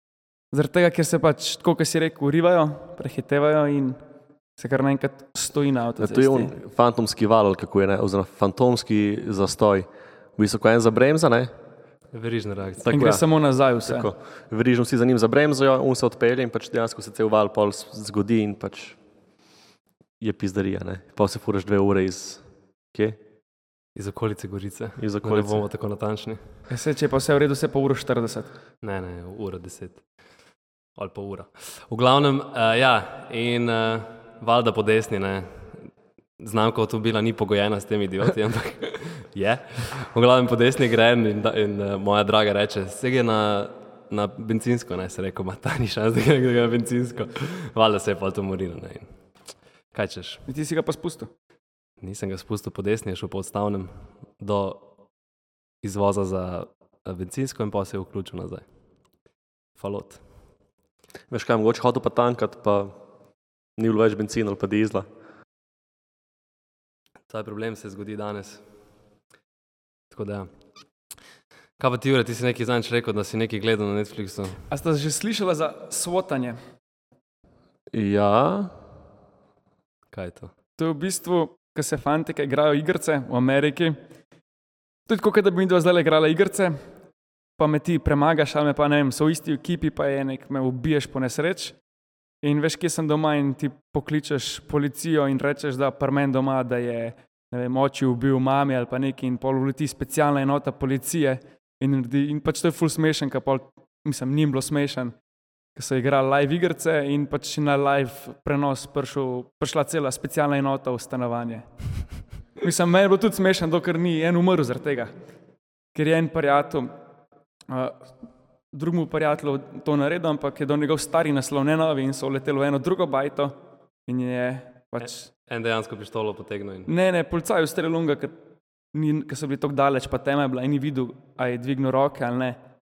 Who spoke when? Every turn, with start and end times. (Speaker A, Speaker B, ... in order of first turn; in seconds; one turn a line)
Speaker A: 0.5-4.0
Speaker A: 4.6-6.5
Speaker B: 6.0-11.5
Speaker C: 12.1-13.0
Speaker B: 12.8-13.2
Speaker A: 12.9-14.1
Speaker B: 13.8-19.0
Speaker B: 20.2-23.2
Speaker C: 23.9-26.4
Speaker B: 25.0-25.6
Speaker A: 26.7-28.5
Speaker C: 28.8-30.0
Speaker C: 31.0-49.1
Speaker C: 49.9-50.5
Speaker A: 50.5-51.3
Speaker C: 52.0-54.9
Speaker C: 55.8-58.6
Speaker C: 59.8-60.2
Speaker B: 61.3-63.0
Speaker B: 63.8-65.1
Speaker C: 67.3-68.6
Speaker C: 70.1-70.5
Speaker C: 71.8-74.6
Speaker A: 74.7-76.6
Speaker B: 77.9-78.7
Speaker C: 80.1-80.5
Speaker A: 80.8-84.0
Speaker A: 85.1-86.8
Speaker A: 87.6-91.8
Speaker A: 92.4-105.2
Speaker A: 105.8-111.7
Speaker A: 112.6-115.1
Speaker A: 115.9-117.0
Speaker A: 117.7-118.1
Speaker A: 118.7-123.6
Speaker A: 124.1-125.3
Speaker C: 125.0-126.9
Speaker A: 126.9-128.4
Speaker A: 128.9-132.6